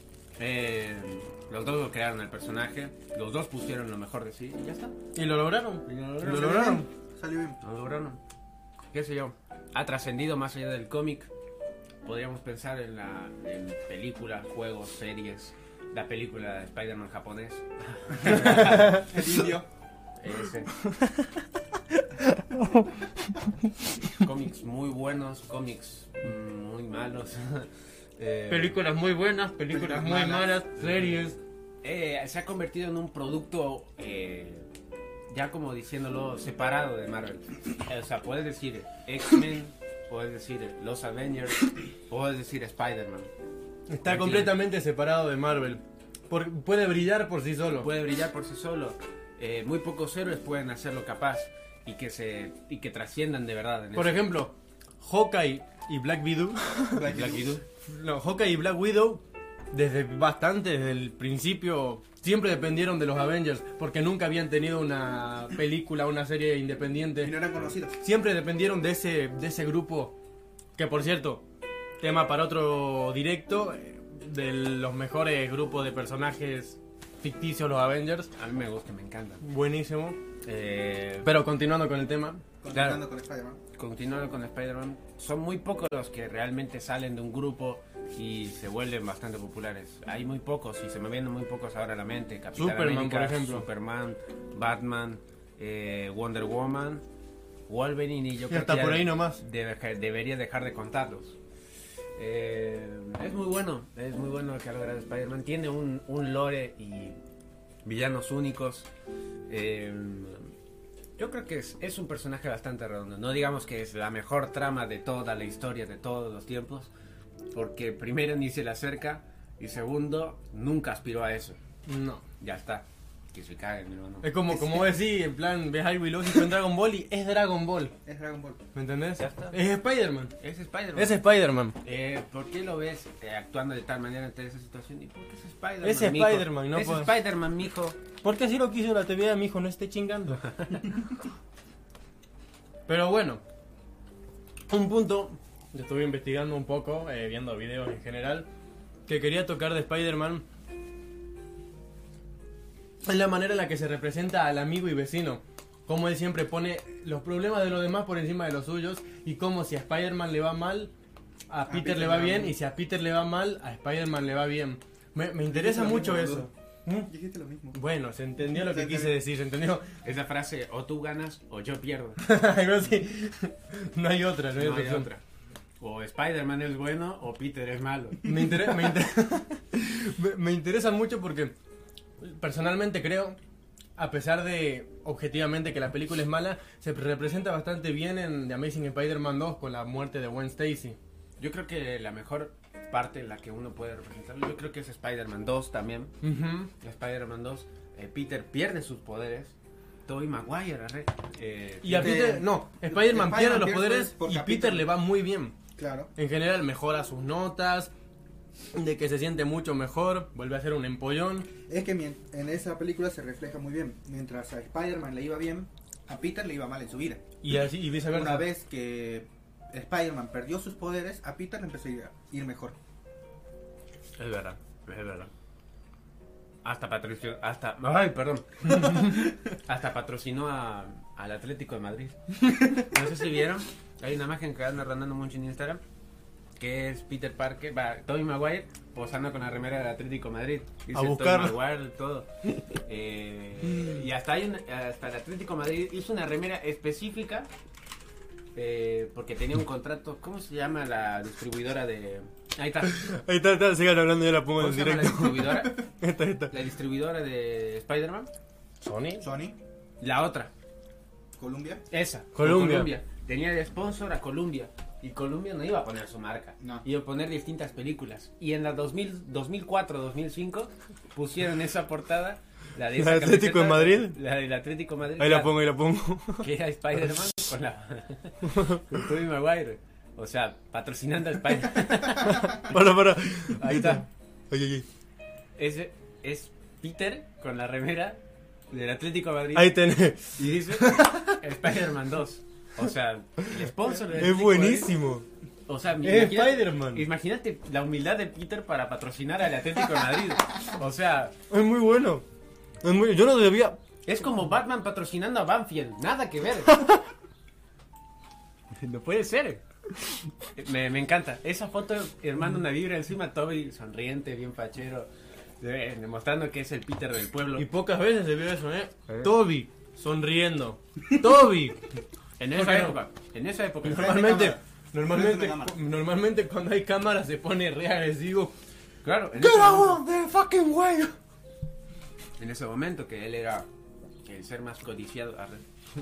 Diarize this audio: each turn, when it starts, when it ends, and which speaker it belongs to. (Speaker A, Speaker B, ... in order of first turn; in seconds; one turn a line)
Speaker A: 0.4-4.9
Speaker B: 5.1-6.9
Speaker A: 5.9-6.7
Speaker C: 6.2-7.6
Speaker A: 7.6-8.2
Speaker A: 8.9-11.3
Speaker A: 12.0-19.2
Speaker C: 18.2-19.7
Speaker B: 18.5-19.0
Speaker A: 20.2-20.7
Speaker B: 20.8-21.1
Speaker B: 22.3-22.9
Speaker A: 24.1-28.8
Speaker B: 28.5-31.4
Speaker C: 29.7-30.5
Speaker A: 30.8-31.1
Speaker A: 31.8-34.7
Speaker A: 35.3-43.3
Speaker B: 43.9-47.9
Speaker A: 44.0-44.5
Speaker A: 47.8-54.2
Speaker B: 53.9-57.1
Speaker C: 56.9-57.6
Speaker A: 57.1-57.6
Speaker B: 57.9-67.4
Speaker C: 67.2-68.0
Speaker B: 68.0-70.1
Speaker B: 70.8-71.4
Speaker B: 72.0-78.3
Speaker A: 78.3-79.4
Speaker B: 79.4-80.2
Speaker A: 80.4-81.3
Speaker B: 81.2-82.4
Speaker C: 82.6-83.6
Speaker A: 82.7-83.0
Speaker A: 83.8-97.0
Speaker B: 92.5-93.7
Speaker A: 97.7-101.4
Speaker B: 98.5-99.4
Speaker A: 102.2-107.2
Speaker A: 107.8-108.9
Speaker A: 109.5-110.5
Speaker A: 111.2-116.9
Speaker A: 117.5-121.6
Speaker B: 121.9-122.2
Speaker A: 122.4-124.3
Speaker B: 124.2-127.9
Speaker C: 124.5-125.0
Speaker C: 128.0-128.6
Speaker B: 128.8-130.4
Speaker A: 129.2-129.6
Speaker A: 130.4-131.2
Speaker B: 130.9-131.8
Speaker A: 131.8-138.0
Speaker B: 135.8-137.1
Speaker B: 138.2-140.5
Speaker A: 140.4-141.0
Speaker B: 142.9-143.4
Speaker A: 144.7-145.4
Speaker B: 145.7-148.5
Speaker B: 149.1-150.4
Speaker B: 153.0-160.9
Speaker B: 161.5-167.1
Speaker C: 161.7-162.6
Speaker C: 165.5-166.5
Speaker C: 167.0-167.8
Speaker B: 167.7-169.8
Speaker C: 168.4-169.1
Speaker A: 170.0-172.2
Speaker B: 172.2-175.1
Speaker A: 174.6-175.2
Speaker A: 175.8-178.2
Speaker B: 178.2-181.5
Speaker C: 178.3-179.0
Speaker B: 182.2-183.4
Speaker B: 184.0-191.0
Speaker A: 191.4-196.1
Speaker B: 196.2-196.7
Speaker A: 196.8-199.5
Speaker A: 200.1-202.2
Speaker B: 201.8-205.6
Speaker C: 201.9-204.9
Speaker C: 205.8-206.1
Speaker B: 206.2-207.9
Speaker B: 208.7-211.5
Speaker C: 211.7-217.3
Speaker B: 217.4-218.5
Speaker C: 218.1-222.8
Speaker A: 224.2-225.3
Speaker A: 226.6-232.2
Speaker A: 232.7-235.8
Speaker A: 236.6-247.5
Speaker B: 240.9-241.6
Speaker C: 243.6-244.0
Speaker A: 248.5-253.0
Speaker B: 252.9-256.5
Speaker A: 254.6-255.8
Speaker A: 256.5-258.3
Speaker B: 258.8-259.2
Speaker C: 259.2-259.6
Speaker A: 260.0-260.5
Speaker C: 261.4-261.8
Speaker A: 261.9-275.6
Speaker B: 262.4-262.9
Speaker C: 266.6-266.9
Speaker B: 272.9-274.2
Speaker B: 275.2-276.5
Speaker A: 276.4-282.8
Speaker B: 278.5-278.9
Speaker B: 282.0-284.9
Speaker A: 283.6-284.1
Speaker A: 285.6-289.8
Speaker B: 289.5-291.4
Speaker A: 290.4-294.9
Speaker B: 293.5-295.2
Speaker A: 295.7-301.4
Speaker B: 296.0-297.0
Speaker B: 301.5-302.2
Speaker B: 302.8-303.8
Speaker A: 304.0-306.8
Speaker B: 306.7-307.0
Speaker A: 308.7-309.6
Speaker A: 310.5-317.6
Speaker B: 317.6-321.9
Speaker A: 322.4-324.2
Speaker B: 322.5-323.0
Speaker B: 323.8-328.5
Speaker C: 323.9-325.8
Speaker A: 329.0-330.0
Speaker B: 329.4-331.1
Speaker A: 332.4-333.7
Speaker A: 334.2-335.6